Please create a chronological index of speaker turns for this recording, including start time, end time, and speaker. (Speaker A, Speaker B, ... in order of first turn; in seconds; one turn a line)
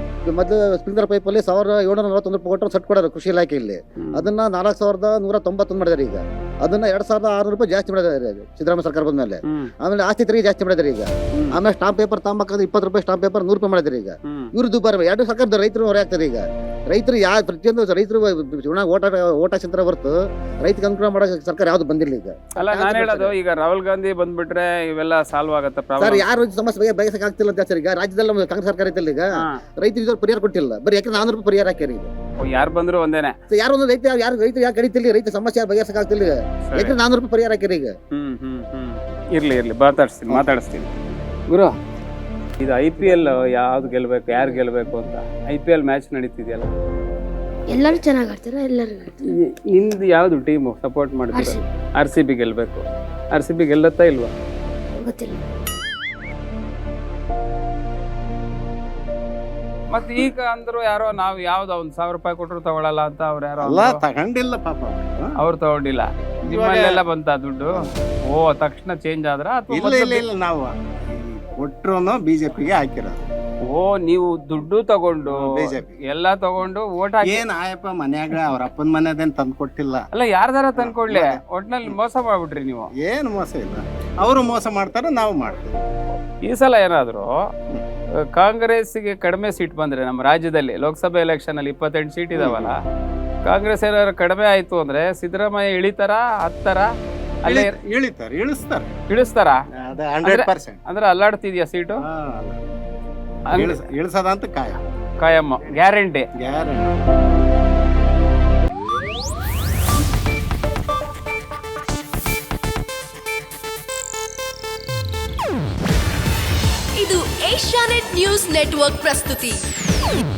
Speaker A: 0.2-23.4
Speaker B: 4.0-4.3
Speaker B: 14.3-14.5
Speaker B: 22.6-26.3
Speaker A: 26.0-29.3
Speaker A: 29.8-32.1
Speaker B: 32.4-33.3
Speaker A: 33.5-37.9
Speaker B: 36.7-37.0
Speaker B: 38.1-40.9
Speaker B: 42.6-46.7
Speaker C: 47.7-49.4
Speaker B: 49.2-54.3
Speaker C: 51.3-51.6
Speaker C: 55.0-55.4
Speaker B: 59.9-64.0
Speaker D: 63.6-65.3
Speaker B: 65.4-70.2
Speaker D: 66.5-67.0
Speaker D: 69.7-73.2
Speaker B: 73.7-77.4
Speaker D: 75.2-76.0
Speaker D: 77.2-80.1
Speaker B: 80.1-82.9
Speaker D: 80.8-81.4
Speaker D: 83.0-85.9
Speaker B: 86.4-87.3
Speaker B: 88.3-92.8
Speaker D: 92.3-92.7
Speaker B: 93.4-96.9
Speaker B: 97.4-97.8
Speaker D: 97.4-98.9
Speaker B: 99.1-99.6
Speaker D: 99.8-100.8
Speaker B: 100.2-102.0
Speaker D: 102.1-102.6
Speaker B: 103.5-103.8
Speaker D: 103.5-104.8
Speaker B: 105.2-106.3
Speaker D: 106.4-106.9
Speaker E: 117.0-119.6